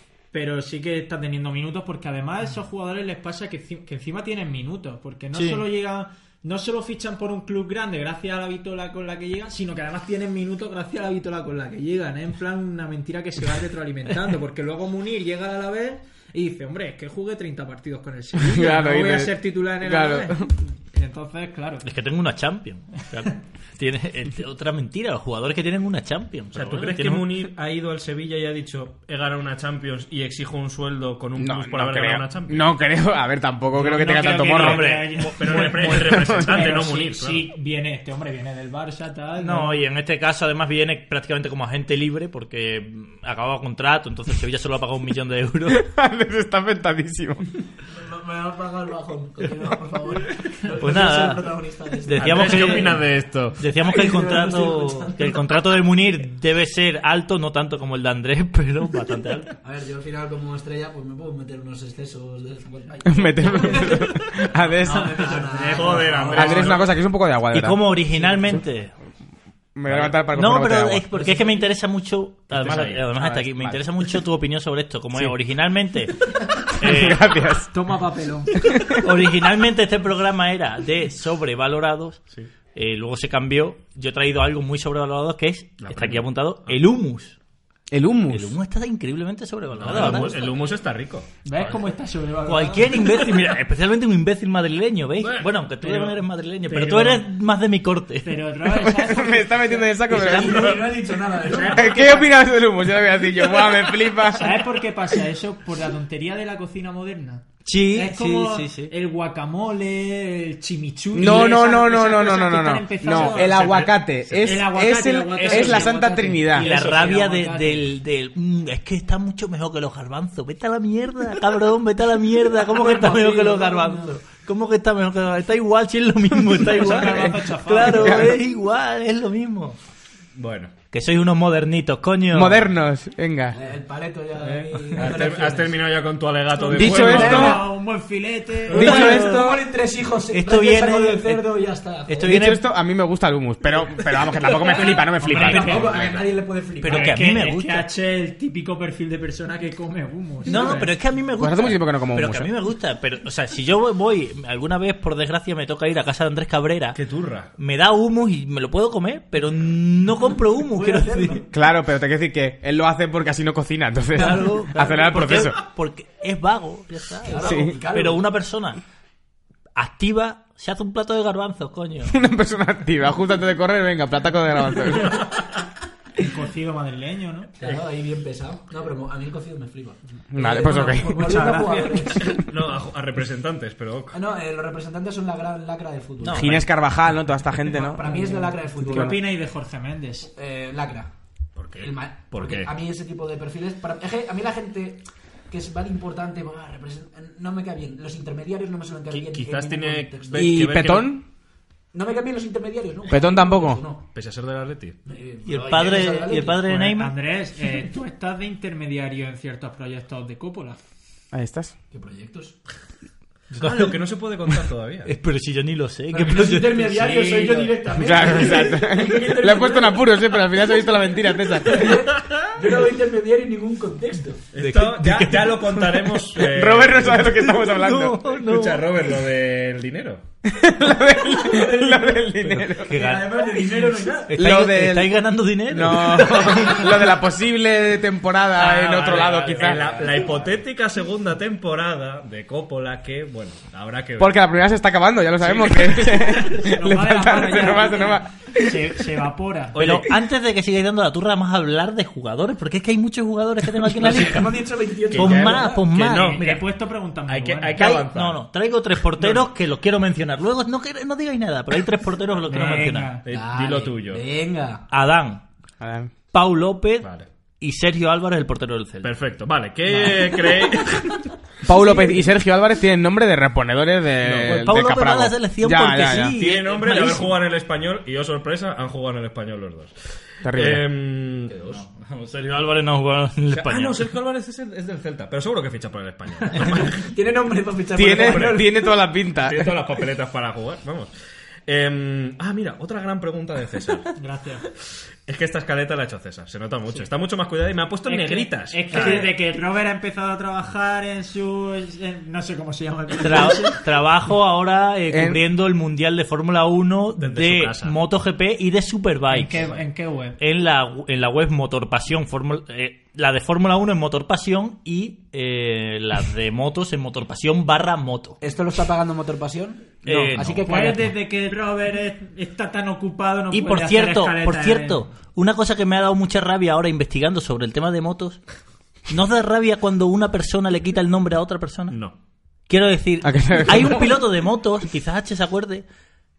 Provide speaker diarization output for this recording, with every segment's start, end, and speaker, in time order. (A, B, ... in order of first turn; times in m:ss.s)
0:00.3-0:21.9 A
0:05.3-0:05.6 B
0:18.4-0:20.5 C
0:21.8-0:27.3 B
0:26.5-0:32.7 D
0:31.4-0:34.9 C
0:33.7-0:39.8 A
0:34.4-0:35.8 B
0:34.8-0:37.5 D
0:35.8-0:36.6 C
0:39.4-0:45.9 B
0:45.7-0:47.4 C
0:47.9-0:53.0 E
0:50.8-0:59.6 B
0:52.2-0:53.6 D
0:53.8-0:55.8 E
0:59.6-1:06.5 E
1:03.0-1:05.2 C
1:04.8-1:06.8 A
1:05.7-1:07.0 D
1:06.3-1:07.9 C
1:07.5-1:08.9 B
1:09.7-1:11.0 C
1:09.8-1:17.3 B
1:12.6-1:13.1 D
1:12.6-1:13.8 C
1:16.8-1:17.7 C
1:17.7-1:18.7 A
1:18.6-1:19.0 C
1:19.0-1:27.4 B
1:25.8-1:26.8 D
1:27.9-1:28.6 C
1:28.3-1:30.5 B
1:29.7-1:31.7 D
1:31.4-1:33.3 A
1:32.4-1:38.4 B
1:35.2-1:35.5 D
1:35.8-1:37.3 A
1:38.2-1:39.8 A
1:38.6-1:40.8 C
1:40.1-1:42.2 E
1:40.1-1:40.7 B
1:40.3-1:40.8 D
1:41.4-1:42.3 A
1:41.7-1:44.7 C
1:44.2-1:53.7 A
1:47.6-1:48.9 B
1:51.1-1:56.7 C
1:53.0-1:54.6 D
1:54.4-1:57.8 A
1:55.4-1:55.9 D
1:56.5-2:09.8 B
2:02.6-2:04.2 E
2:06.6-2:08.3 A
2:07.8-2:08.3 C
2:10.3-2:10.7 D
2:10.9-2:12.6 B
2:12.3-2:13.6 C
2:13.5-2:15.8 E
2:14.4-2:17.6 D
2:16.6-2:19.2 A
2:16.7-2:17.7 C
2:18.7-2:19.6 C
2:18.7-2:22.5 E
2:18.7-2:19.0 D
2:18.9-2:19.4 B
2:20.3-2:22.6 B
2:22.2-2:25.8 C
2:24.8-2:27.1 E
2:25.2-2:26.2 B
2:25.4-2:25.8 A
2:25.8-2:26.2 D
2:26.8-2:27.9 B
2:26.8-2:30.9 A
2:30.4-2:37.0 B
2:31.4-2:32.5 C
2:36.9-2:37.5 D
2:37.6-2:41.4 B
2:40.7-2:41.5 E
2:41.5-2:45.6 C
2:44.1-2:48.8 B
2:47.2-2:48.3 E
2:47.4-2:47.8 C
2:49.7-2:52.2 B
2:52.0-2:55.3 C
2:55.0-2:55.5 D
2:56.2-2:57.5 A
2:57.6-3:02.5 E
3:00.3-3:01.5 C
3:00.4-3:02.3 A
3:02.2-3:04.2 D
3:04.1-3:06.6 E
3:06.2-3:06.6 B
3:06.2-3:09.2 C
3:07.6-3:09.2 E
3:08.0-3:10.3 A
3:10.3-3:11.1 E
3:11.6-3:12.7 D
3:11.8-3:20.7 E
3:19.1-3:21.2 D
3:20.3-3:21.2 C
3:21.9-3:24.1 E
3:23.1-3:23.8 C
3:24.1-3:25.0 D
3:25.0-3:26.6 E
3:25.4-3:27.1 B
3:26.6-3:30.8 A
3:31.3-3:31.7 C
3:31.9-3:32.6 E
3:33.5-3:37.8 B
3:33.5-3:35.1 D
3:36.1-3:40.4 E
3:37.9-3:42.0 C
3:41.6-3:44.4 E
3:42.1-3:42.6 D
3:44.5-3:47.5 D
3:44.6-3:46.2 B
3:46.4-3:48.2 C
3:47.2-3:49.0 B
3:48.3-3:50.2 D
3:50.4-3:53.0 C
3:51.4-3:54.3 E
3:52.4-3:53.7 B
3:53.4-3:54.2 A
3:54.2-3:57.1 B
3:54.4-3:59.9 C
3:58.6-4:00.5 B
3:59.2-4:04.4 D
4:04.2-4:08.8 C
4:05.5-4:09.8 A
4:09.7-4:10.1 D
4:09.8-4:14.5 B
4:13.9-4:15.9 E
4:15.1-4:16.6 D
4:15.1-4:16.4 B
4:16.2-4:17.8 A
4:17.2-4:18.4 D
4:17.7-4:23.2 B
4:19.2-4:19.5 D
4:22.5-4:23.2 A
4:23.2-4:24.2 D
4:23.3-4:24.8 E
4:24.9-4:25.4 B
4:25.8-4:26.1 C
4:26.3-4:29.1 B
4:27.0-4:27.3 D
4:29.0-4:31.3 D
4:31.6-4:36.4 C
4:34.2-4:34.7 D
4:34.4-4:37.3 B
4:36.2-4:41.8 D
4:40.4-4:40.8 C
4:41.5-4:44.1 B
4:43.5-4:47.1 D
4:46.7-4:48.9 E
4:48.0-4:49.8 C
4:48.2-4:48.5 D
4:49.4-4:51.1 D
4:51.6-4:54.1 D
4:54.2-4:54.6 A
4:55.2-4:59.3 D
4:58.0-5:03.8 A
4:58.9-4:59.2 B
5:03.2-5:09.6 B
5:05.1-5:05.4 C
5:07.2-5:08.0 D
5:09.3-5:10.4 A
5:09.5-5:09.8 D
5:10.4-5:18.4 B
5:18.4-5:21.1 E
5:20.0-5:20.7 B
5:20.6-5:25.0 A
5:23.5-5:28.4 B
5:29.1-5:32.0 B
5:31.9-5:32.2 D
5:32.7-5:35.8 B
5:33.2-5:34.2 C